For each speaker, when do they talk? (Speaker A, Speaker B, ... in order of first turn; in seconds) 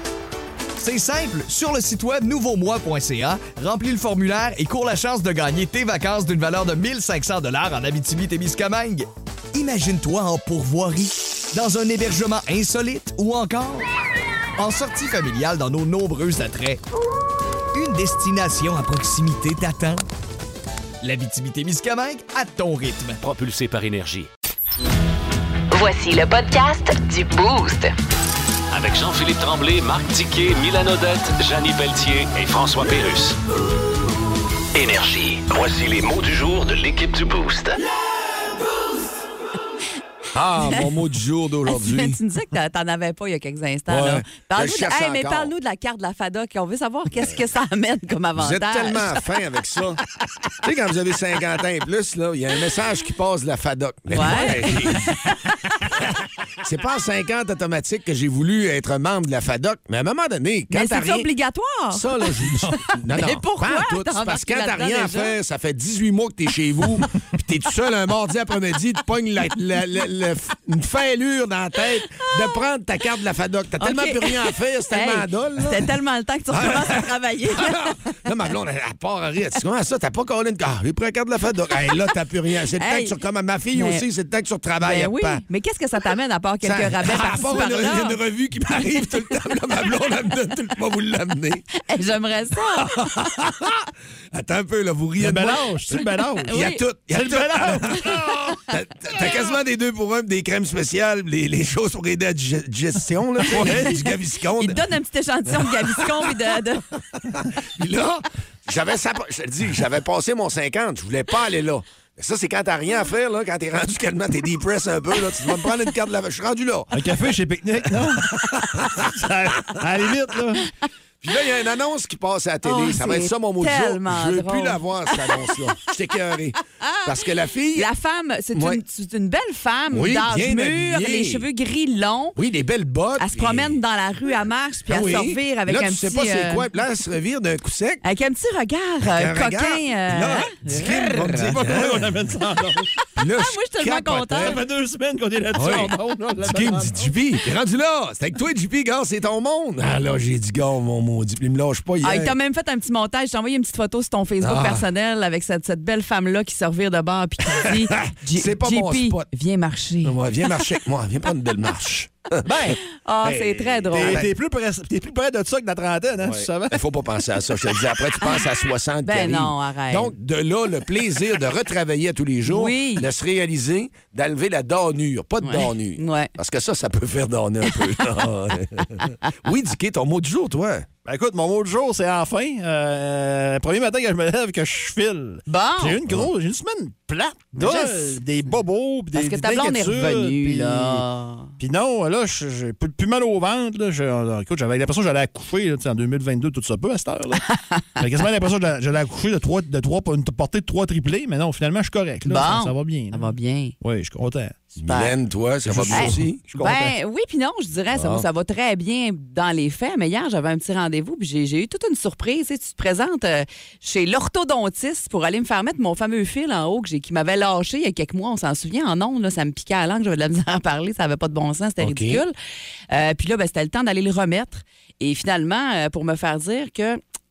Speaker A: 0.8-13.8, 14.6-16.8, 17.7-20.1, 21.0-23.2
Speaker B: 23.2-24.3, 28.7-33.4, 34.7-37.8
Speaker C: 25.7-27.9
Speaker D: 40.3-42.2, 43.9-45.5, 48.4-50.0, 50.6-55.1, 55.8-61.3, 61.9-75.9, 76.5-85.4, 86.6-91.6, 92.9-95.8, 96.5-104.8, 105.5-106.3, 107.2-117.2, 118.1-119.0, 121.2-127.9, 128.5-128.8, 129.9-131.4, 132.3-133.8, 134.9-138.0, 139.2-142.1, 143.2-144.6, 145.5-152.3, 154.4-154.8, 157.6-159.2, 160.0-162.7, 163.3-164.2, 166.2-180.9, 204.8-206.4, 207.9-208.2, 221.8-222.2
Speaker E: 40.6-40.9, 41.7-49.2, 54.1-55.8, 60.7-65.3, 73.8-77.9, 82.8-83.1, 83.7-84.0, 84.8-88.2, 91.8-93.0, 96.5-96.8, 103.5-106.8, 122.6-125.5, 126.8-127.1, 127.7-132.4, 133.2-136.7, 138.0-140.5, 143.4-144.6, 152.0-160.2, 162.5-164.2, 169.0-170.1, 172.4-173.1, 175.4-176.3, 185.5-186.0, 187.5-188.2, 189.1-191.5, 197.5-197.8, 202.2-203.7, 204.9-205.1, 205.9-222.3, 222.9-227.0
Speaker F: 95.2-96.5, 97.1-98.4, 103.5-104.0, 116.9-120.7, 140.6-142.9, 144.3-147.2, 162.4-162.8, 163.3-166.8, 181.0-191.0, 191.6-197.4, 198.0-204.6, 205.6-206.9